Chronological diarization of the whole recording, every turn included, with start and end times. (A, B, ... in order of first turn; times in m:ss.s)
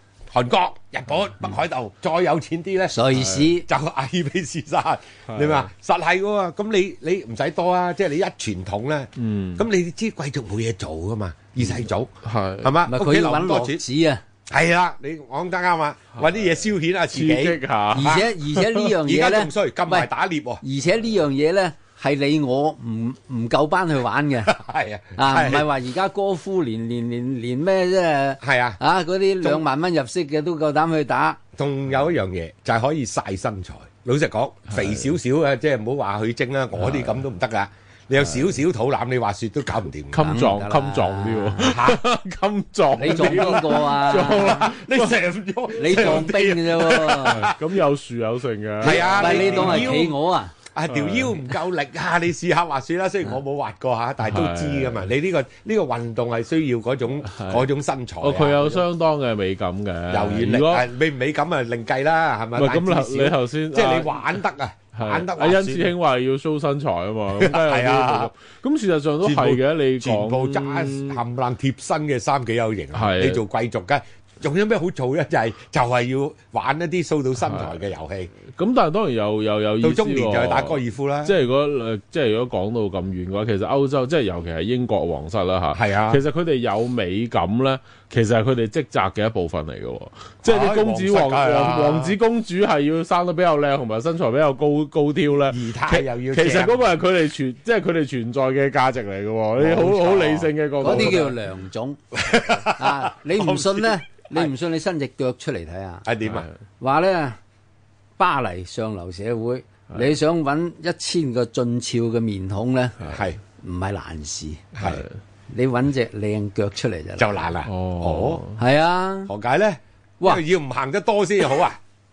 0:00.3-0:13.8 A
0:02.9-0:03.7 B
0:03.1-0:03.5 C
0:05.3-0:05.7 C
0:09.2-0:09.6 C
0:12.2-0:12.8 C
0:12.8-0:14.2 B
0:14.5-0:20.6 A
0:17.1-0:18.9 C
0:17.9-0:20.1 B
0:20.6-0:24.5 B
0:24.4-0:25.7 A
0:25.2-0:31.4 B
0:28.4-0:28.8 A
0:31.6-0:40.2 A
0:34.7-0:35.0 C
0:36.8-0:37.1 C
0:40.1-0:45.2 C
0:40.2-0:41.8 B
0:41.6-0:42.1 A
0:42.9-0:44.7 B
0:43.0-0:47.8 A
0:45.8-0:47.5 B
0:45.8-0:46.3 C
0:47.2-0:50.0 C
0:48.8-0:50.2 A
0:48.8-0:50.5 B
0:50.7-0:58.8 A
0:50.9-0:51.4 C
0:54.2-0:55.1 C
0:57.2-0:57.6 C
0:58.2-1:00.9 C
1:00.1-1:05.9 A
1:02.6-1:04.4 C
1:04.9-1:11.2 C
1:07.3-1:08.3 A
1:09.2-1:18.3 A
1:12.9-1:13.4 C
1:17.4-1:17.8 C
1:18.5-1:41.3 C
1:19.8-1:21.4 A
1:25.7-1:26.2 A
1:30.4-1:32.2 A
1:35.5-1:36.9 A
1:39.6-1:41.2 A
1:40.8-1:42.0 B
1:42.1-1:44.5 A
1:42.6-1:46.0 B
1:46.0-1:46.5 A
1:46.2-1:46.5 C
1:46.8-1:47.4 B
1:48.2-1:53.0 B
1:53.0-1:53.4 A
1:53.6-1:54.6 B
1:54.8-1:55.0 A
1:54.8-1:55.1 C
1:55.5-1:57.5 B
1:57.2-1:58.4 A
1:57.6-1:58.6 C
1:58.6-1:59.3 B
1:59.2-2:01.8 A